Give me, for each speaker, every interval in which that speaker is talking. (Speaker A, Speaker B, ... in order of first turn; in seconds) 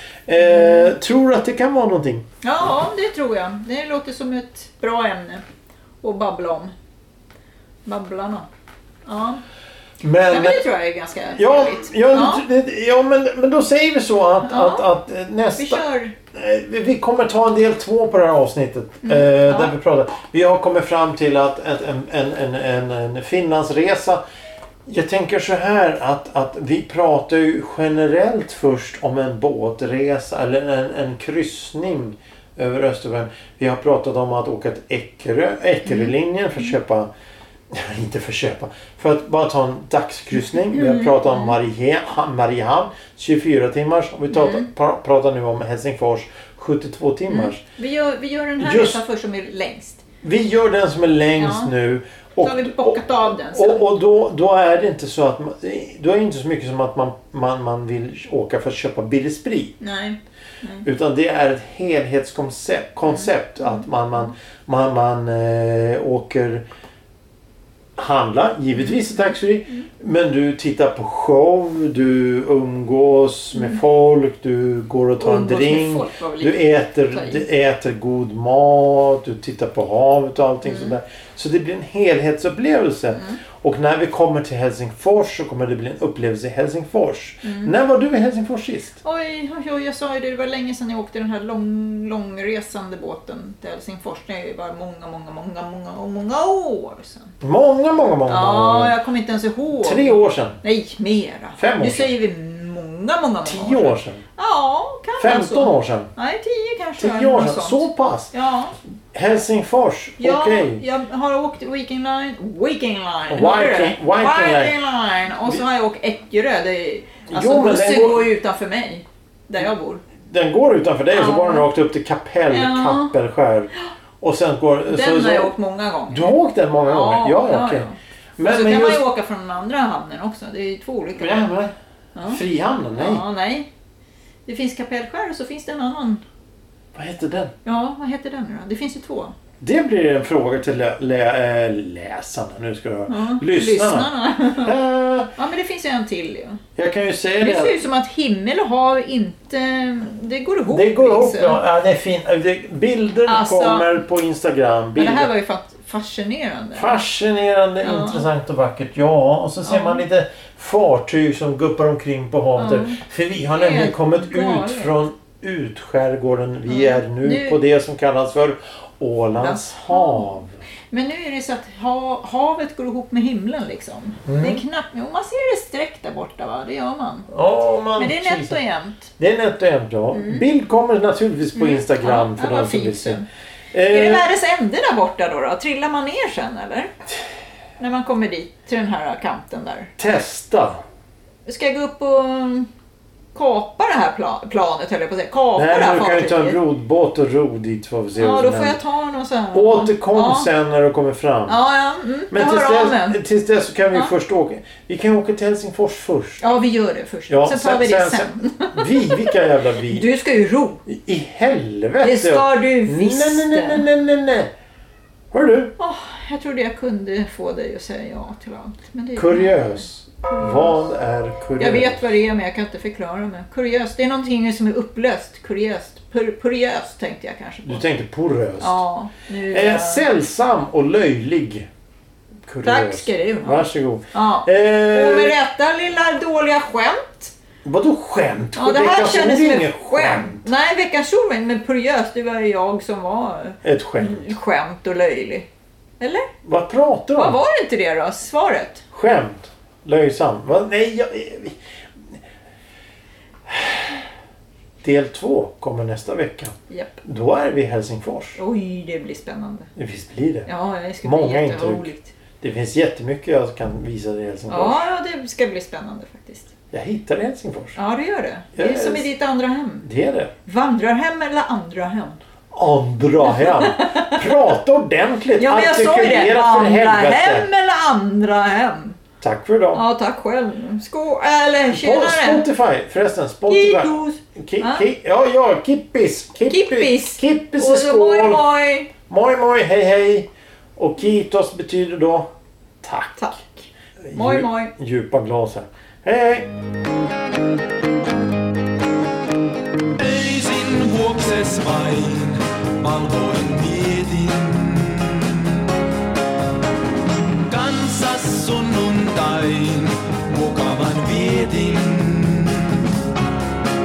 Speaker A: 0.3-2.2, 10.0-10.6, 11.3-24.2, 24.9-37.1, 37.7-47.6, 48.6-49.0, 50.2-59.8, 60.8-66.6, 68.0-89.0, 97.4-99.0, 99.8-100.6, 101.6-102.1, 103.4-104.2, 105.2-106.1, 107.0-108.3, 109.1-110.8, 113.3-114.8, 117.3-118.3, 120.2-125.5, 126.1-129.0, 131.2-131.7, 132.2-133.2, 136.9-137.5, 139.6-145.3, 146.8-147.8, 150.7-155.3, 156.7-170.6, 174.2-174.6, 177.3-178.6, 179.2-183.2, 183.7-184.2, 190.0-190.8, 195.6-198.8, 199.5-201.6, 202.3-206.4, 207.3-210.1, 210.9-214.5, 215.3-215.7, 219.2-222.0, 227.6-228.8, 229.5-231.7, 232.5-235.4, 237.6-240.5, 243.6-244.3, 246.4-247.4, 248.9-251.6, 253.5-253.9, 254.8-258.4, 259.8-260.5, 261.0-261.9, 262.4-264.8, 266.7-267.8, 268.5-269.1, 269.8-270.3, 272.5-277.4, 279.2-279.8, 281.7-288.4, 289.1-292.3, 292.8-293.2, 294.0-296.5
Speaker B: 0.5-0.9, 2.4-5.4, 6.0-6.7, 7.8-8.5, 9.1-9.4, 10.3-12.4, 14.4-14.9, 15.6-16.1, 19.0-19.7, 40.7-41.5, 44.3-44.6, 47.3-50.0, 51.4-51.7, 52.4-53.9, 59.8-60.9, 63.1-63.8, 68.8-69.8, 75.2-77.4, 80.6-80.9, 87.4-87.7, 89.0-97.3, 98.3-108.7, 110.2-120.0, 121.1-121.7, 122.5-123.1, 124.9-131.4, 132.1-132.4, 132.9-133.7, 134.4-136.2, 137.6-139.3, 143.1-144.7, 145.3-146.6, 147.4-151.6, 153.2-153.9, 154.9-157.0, 157.8-158.2, 159.6-160.0, 162.6-163.0, 163.5-165.0, 166.7-167.6, 169.4-170.3, 170.9-177.3, 177.9-179.1, 180.1-180.4, 181.5-183.3, 183.9-186.9, 187.8-189.9, 191.4-192.7, 193.3-196.6, 198.2-200.5, 201.5-203.2, 206.4-210.8, 212.0-213.9, 215.8-220.8, 221.6-227.8, 228.6-230.1, 232.6-237.3, 238.6-245.5, 246.0-246.3, 247.2-248.8, 256.7-257.0, 258.4-259.7, 260.4-262.1, 264.5-266.5, 267.8-269.9, 270.4-272.2, 273.3-274.2, 275.4-279.0, 279.7-282.4, 283.5-284.9, 286.5-288.9, 293.2-294.7
Speaker C: 299.9-305.6, 307.4-312.9